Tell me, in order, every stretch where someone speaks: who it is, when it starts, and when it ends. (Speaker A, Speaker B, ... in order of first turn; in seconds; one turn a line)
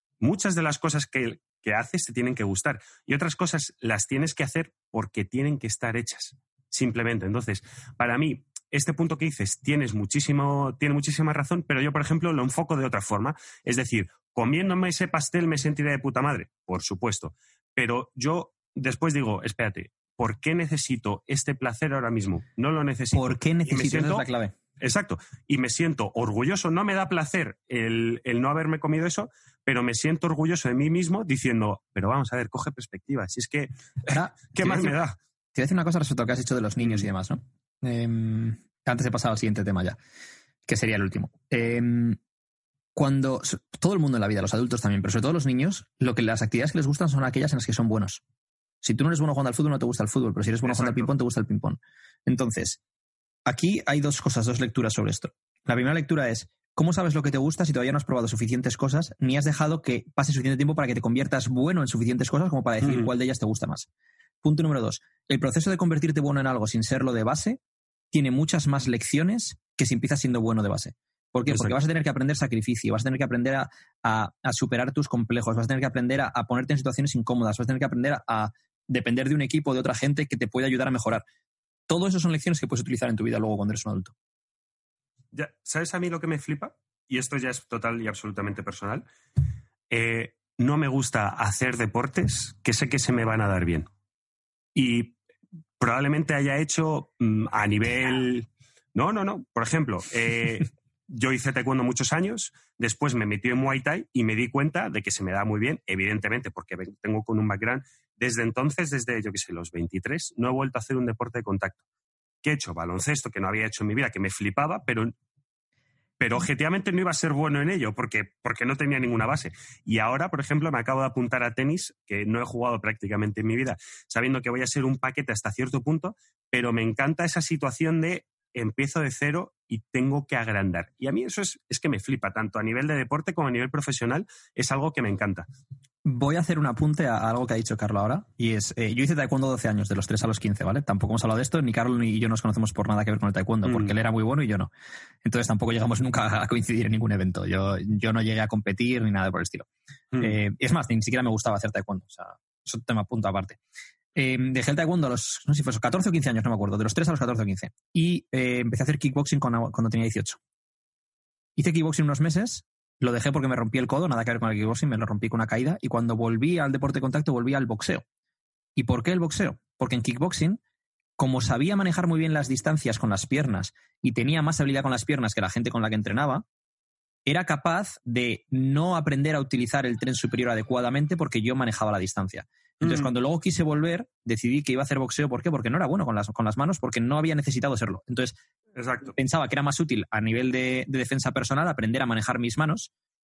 Speaker A: 0.2-24.3
Speaker B: 23.1-24.5
Speaker A: 24.8-35.2
Speaker B: 34.1-35.0
Speaker B: 35.5-40.0
Speaker B: 40.7-42.2
Speaker B: 43.0-48.2
Speaker B: 48.8-52.8
Speaker A: 50.6-51.1
Speaker B: 53.5-63.9
Speaker A: 62.8-63.1
Speaker B: 64.4-67.6
Speaker B: 68.1-81.2
Speaker A: 71.5-71.8
Speaker B: 81.9-84.2
Speaker A: 85.3-89.1
Speaker A: 89.9-93.9
Speaker A: 94.8-95.2
Speaker A: 95.8-111.8
Speaker A: 112.4-115.1
Speaker A: 116.2-135.5
Speaker B: 136.1-144.7
Speaker A: 143.7-143.9
Speaker B: 145.2-149.7
Speaker B: 150.2-153.6
Speaker B: 154.2-160.4
Speaker B: 161.6-168.0
Speaker B: 168.8-170.6
Speaker B: 171.2-176.5
Speaker B: 177.3-188.4
Speaker A: 182.8-183.1
Speaker A: 188.8-189.2
Speaker B: 189.2-192.9